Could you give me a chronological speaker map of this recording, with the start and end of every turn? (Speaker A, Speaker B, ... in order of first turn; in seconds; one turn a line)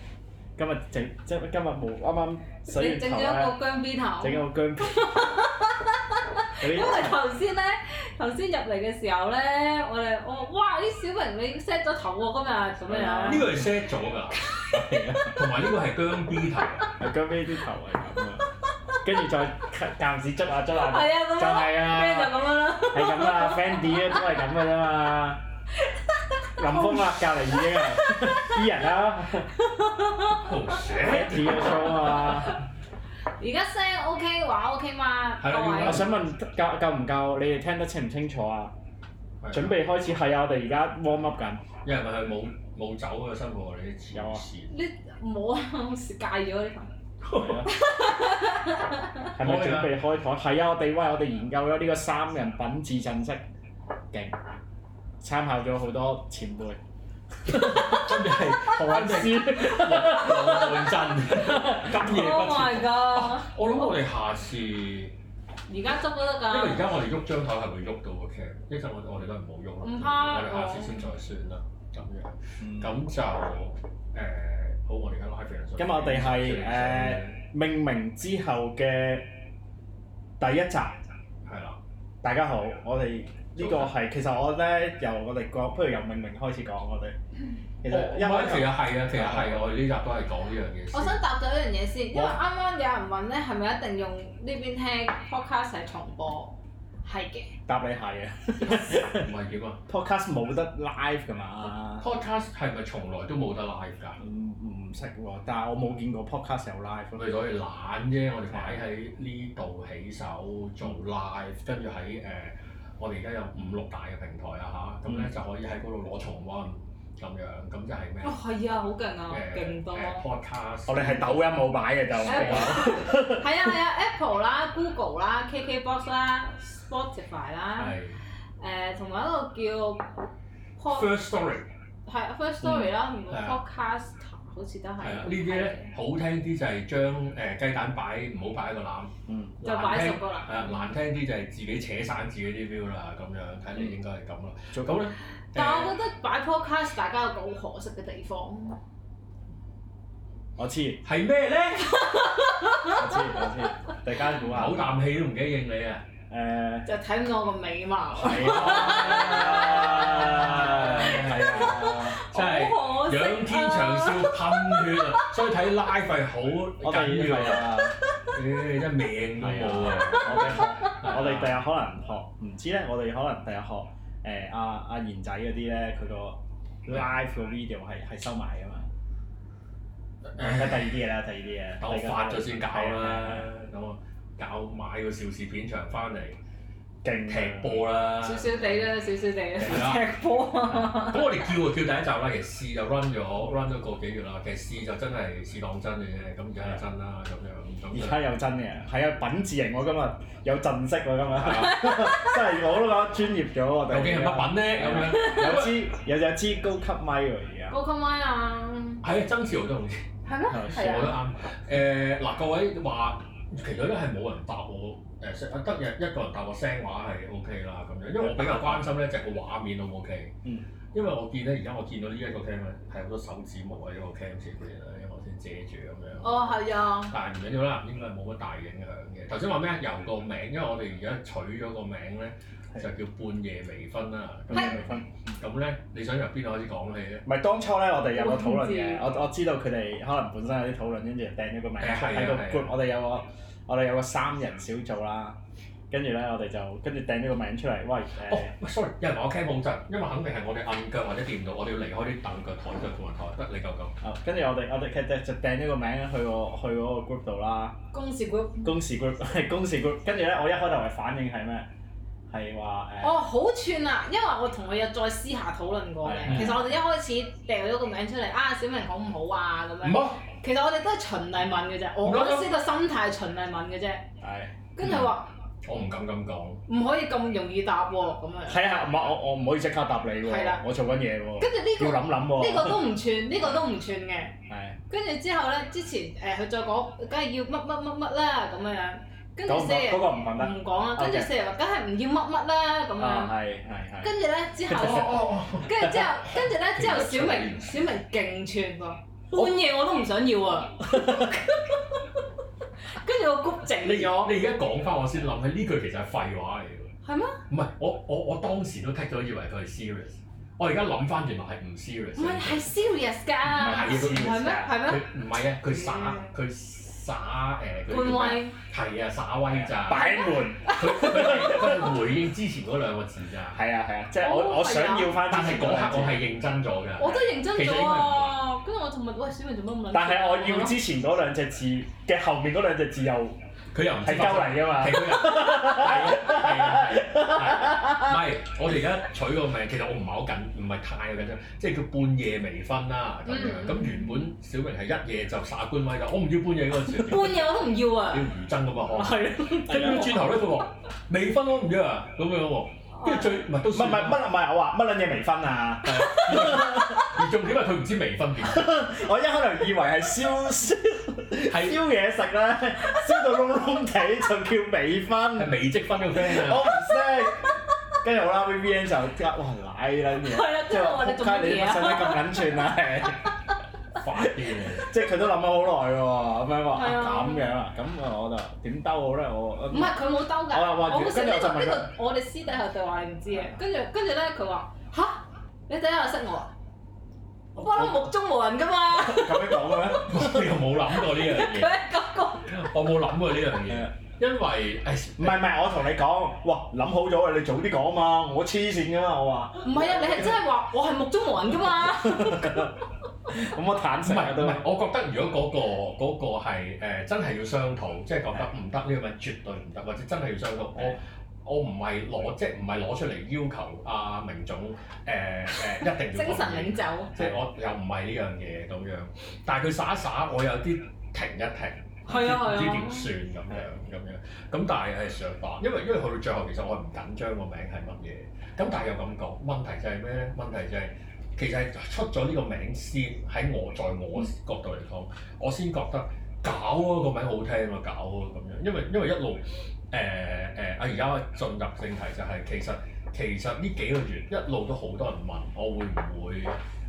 Speaker A: 0.6-3.6
Speaker B: 2.7-13.7
Speaker A: 4.2-5.1
Speaker A: 6.6-7.2
Speaker A: 12.9-13.7
Speaker C: 13.2-14.4
Speaker B: 14.3-15.0
Speaker A: 14.7-15.4
Speaker C: 15.3-16.9
Speaker B: 16.6-16.9
Speaker A: 17.0-18.5
Speaker A: 19.0-22.4
Speaker B: 20.7-24.4
Speaker A: 22.9-25.4
Speaker B: 25.8-28.7
Speaker A: 26.6-29.5
Speaker B: 29.4-31.0
Speaker C: 30.3-32.5
Speaker A: 31.0-32.6
Speaker B: 31.6-32.6
Speaker B: 33.4-36.1
Speaker C: 35.4-36.1
Speaker A: 35.8-38.7
Speaker C: 39.4-39.8
Speaker A: 39.5-41.6
Speaker C: 41.8-44.7
Speaker A: 44.1-44.4
Speaker B: 44.7-46.9
Speaker C: 47.2-47.7
Speaker A: 47.3-47.8
Speaker B: 47.7-49.3
Speaker A: 49.3-53.4
Speaker C: 49.4-50.0
Speaker A: 54.1-54.4
Speaker A: 55.2-56.8
Speaker A: 57.5-62.1
Speaker C: 57.5-65.2
Speaker B: 61.9-64.0
Speaker B: 65.7-66.9
Speaker C: 66.5-77.4
Speaker B: 69.8-71.1
Speaker A: 72.6-72.9
Speaker A: 75.8-79.3
Speaker A: 80.4-81.0
Speaker C: 81.5-81.8
Speaker A: 82.2-87.2
Speaker C: 83.6-83.9
Speaker A: 87.8-89.8
Speaker C: 87.9-91.2
Speaker B: 90.9-97.5
Speaker A: 92.1-92.4
Speaker A: 97.7-99.3
Speaker C: 98.6-99.8
Speaker A: 99.9-102.1
Speaker C: 102.0-104.2
Speaker A: 104.2-107.3
Speaker C: 107.2-118.4
Speaker A: 108.5-108.8
Speaker B: 118.2-120.3
Speaker C: 119.3-122.9
Speaker A: 120.9-123.7
Speaker B: 122.2-128.0
Speaker C: 127.8-128.2
Speaker B: 128.6-130.2
Speaker B: 130.8-131.1
Speaker C: 130.9-131.7
Speaker B: 132.1-135.9
Speaker A: 132.6-132.9
Speaker C: 133.3-133.6
Speaker C: 135.0-146.0
Speaker A: 139.3-139.6
Speaker B: 139.6-140.8
Speaker B: 145.5-148.8
Speaker A: 150.6-151.0
Speaker C: 151.0-152.4
Speaker B: 151.8-153.5
Speaker A: 152.8-154.8
Speaker C: 154.3-156.1
Speaker A: 156.3-156.9
Speaker B: 156.9-165.3
Speaker A: 158.1-162.2
Speaker C: 158.4-171.6
Speaker A: 166.8-168.0
Speaker A: 169.4-178.9
Speaker B: 170.1-170.9
Speaker C: 180.2-181.0
Speaker A: 180.4-183.5
Speaker C: 181.8-186.4
Speaker A: 187.0-187.9
Speaker C: 187.3-188.7
Speaker B: 188.2-191.5
Speaker C: 189.6-190.0
Speaker C: 190.7-198.2
Speaker A: 197.9-207.8
Speaker C: 201.3-201.8
Speaker B: 201.6-202.4
Speaker C: 203.9-205.9
Speaker B: 205.1-205.4
Speaker B: 207.7-209.0
Speaker C: 209.0-210.1
Speaker B: 210.2-211.2
Speaker A: 210.5-210.8
Speaker C: 210.6-220.3
Speaker A: 218.2-218.9
Speaker C: 220.9-237.3
Speaker B: 226.2-227.2
Speaker A: 234.5-235.4
Speaker B: 234.5-234.8
Speaker A: 237.3-245.4
Speaker B: 238.1-239.0
Speaker C: 241.8-242.7
Speaker A: 245.9-248.6
Speaker C: 248.3-253.9
Speaker A: 254.0-257.8
Speaker B: 257.9-258.7
Speaker A: 258.6-261.7
Speaker A: 262.3-263.2
Speaker B: 263.0-274.1
Speaker A: 266.0-266.7
Speaker C: 269.8-270.2
Speaker C: 272.0-272.5
Speaker A: 274.2-274.5
Speaker B: 274.8-275.3
Speaker C: 274.8-276.6
Speaker B: 276.7-278.6
Speaker A: 278.5-282.9
Speaker B: 280.2-280.6
Speaker B: 281.4-284.4
Speaker A: 284.5-284.8
Speaker B: 284.9-293.4
Speaker A: 289.4-291.3
Speaker A: 293.0-294.1
Speaker B: 294.0-302.1
Speaker C: 294.7-297.9
Speaker A: 294.8-295.0
Speaker A: 300.9-301.4
Speaker B: 302.8-304.4
Speaker C: 303.8-306.9
Speaker B: 307.0-307.4
Speaker C: 307.5-312.7
Speaker B: 312.2-315.1
Speaker A: 313.5-314.8
Speaker C: 313.5-323.6
Speaker B: 315.6-316.3
Speaker B: 317.9-318.6
Speaker A: 319.5-321.9
Speaker B: 319.9-321.1
Speaker A: 323.5-326.2
Speaker B: 324.2-325.2
Speaker C: 325.1-328.4
Speaker B: 327.0-330.8
Speaker A: 329.9-333.4
Speaker C: 333.7-354.3
Speaker A: 334.0-338.1
Speaker B: 343.3-344.3
Speaker B: 346.8-348.3
Speaker B: 348.9-350.3
Speaker A: 349.7-350.0
Speaker B: 352.9-353.4
Speaker A: 353.7-357.0
Speaker C: 355.8-358.9
Speaker B: 355.9-357.2
Speaker A: 358.4-365.6
Speaker C: 361.4-361.8
Speaker C: 365.4-366.8
Speaker A: 366.1-373.2
Speaker B: 370.2-372.7
Speaker C: 373.9-374.9
Speaker A: 374.2-381.9
Speaker B: 376.7-377.6
Speaker B: 379.7-386.5
Speaker B: 387.6-392.7
Speaker A: 387.6-388.0
Speaker A: 389.0-390.5
Speaker C: 390.0-391.8
Speaker C: 392.5-395.5
Speaker A: 395.2-400.3
Speaker B: 399.6-402.8
Speaker A: 401.9-402.8
Speaker A: 403.3-404.6
Speaker C: 404.0-446.6
Speaker B: 415.6-417.3
Speaker B: 422.1-423.1